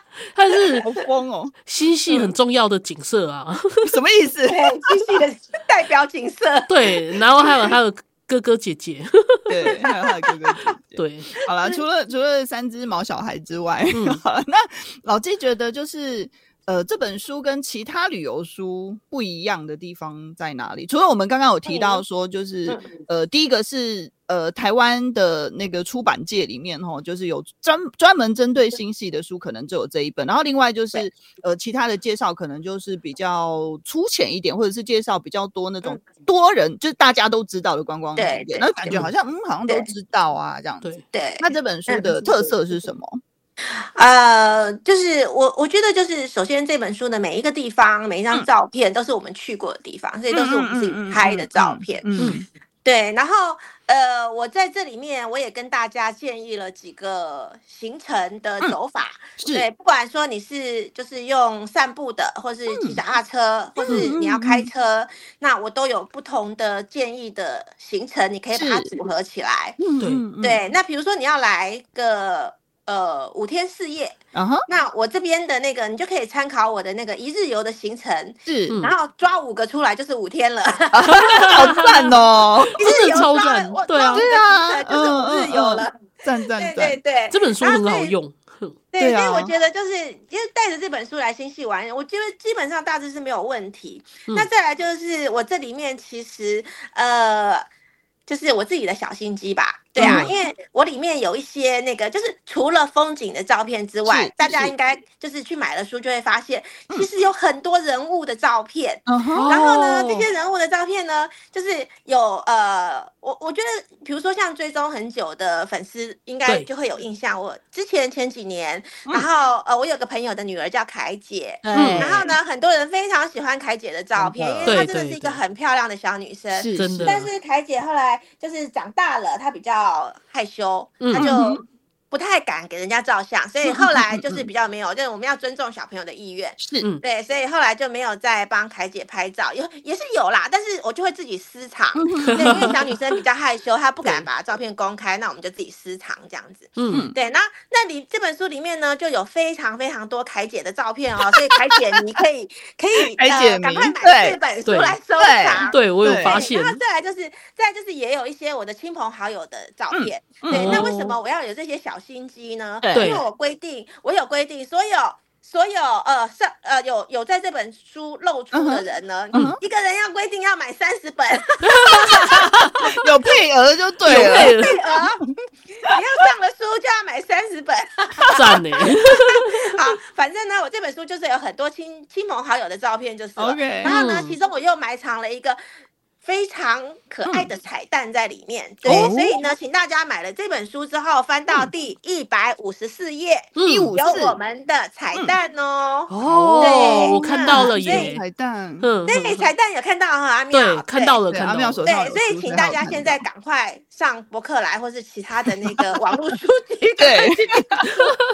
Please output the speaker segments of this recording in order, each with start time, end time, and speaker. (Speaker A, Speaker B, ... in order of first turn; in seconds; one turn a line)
Speaker A: 0.3-0.9
Speaker B: 0.8-1.6
Speaker A: 1.7-3.9
Speaker B: 3.8-5.1
Speaker C: 4.5-6.7
Speaker A: 6.7-9.5
Speaker B: 9.5-43.2
Speaker A: 10.9-11.3
Speaker A: 13.9-14.2
Speaker C: 21.7-22.0
Speaker C: 38.2-38.9
Speaker C: 41.1-42.1
Speaker C: 43.7-52.1
Speaker B: 50.3-52.5
Speaker C: 52.8-69.8
Speaker B: 59.4-59.7
Speaker B: 62.7-63.0
Speaker B: 63.8-64.7
Speaker B: 68.5-68.9
Speaker B: 69.8-70.6
Speaker C: 70.4-81.9
Speaker B: 74.3-74.6
Speaker B: 78.5-78.8
Speaker A: 78.7-79.0
Speaker B: 80.9-82.8
Speaker A: 81.2-82.1
Speaker A: 82.8-84.3
Speaker C: 82.8-86.0
Speaker B: 84.1-87.0
Speaker C: 86.6-88.1
Speaker A: 87.3-88.8
Speaker C: 88.9-97.6
Speaker B: 89.0-89.5
Speaker C: 98.3-172.4
Speaker B: 100.0-100.3
Speaker A: 100.0-100.3
Speaker B: 104.1-104.7
Speaker B: 109.1-110.2
Speaker A: 109.3-110.1
Speaker B: 121.6-122.3
Speaker A: 121.7-122.2
Speaker B: 124.2-124.9
Speaker A: 124.7-125.4
Speaker B: 126.5-127.2
Speaker A: 126.8-127.3
Speaker A: 131.0-131.3
Speaker B: 131.1-131.6
Speaker B: 133.7-134.4
Speaker B: 136.6-136.9
Speaker B: 141.9-142.8
Speaker A: 142.3-142.7
Speaker A: 146.8-147.1
Speaker B: 153.1-154.4
Speaker A: 154.7-155.0
Speaker B: 155.2-156.5
Speaker A: 155.7-156.8
Speaker B: 159.9-160.9
Speaker A: 160.5-161.2
Speaker B: 162.8-163.1
Speaker A: 162.9-163.2
Speaker B: 168.5-169.6
Speaker A: 171.7-172.8
Speaker B: 172.8-174.7
Speaker A: 174.1-174.8
Speaker C: 174.1-175.2
Speaker C: 175.8-185.6
Speaker A: 178.3-179.4
Speaker B: 183.4-183.9
Speaker A: 183.8-184.4
Speaker C: 186.2-198.1
Speaker B: 188.8-189.4
Speaker A: 193.6-193.9
Speaker B: 193.6-194.4
Speaker A: 196.1-198.2
Speaker B: 196.2-198.9
Speaker A: 198.8-199.5
Speaker C: 199.1-201.2
Speaker A: 200.5-201.8
Speaker B: 201.3-203.2
Speaker C: 201.8-208.0
Speaker B: 207.0-207.9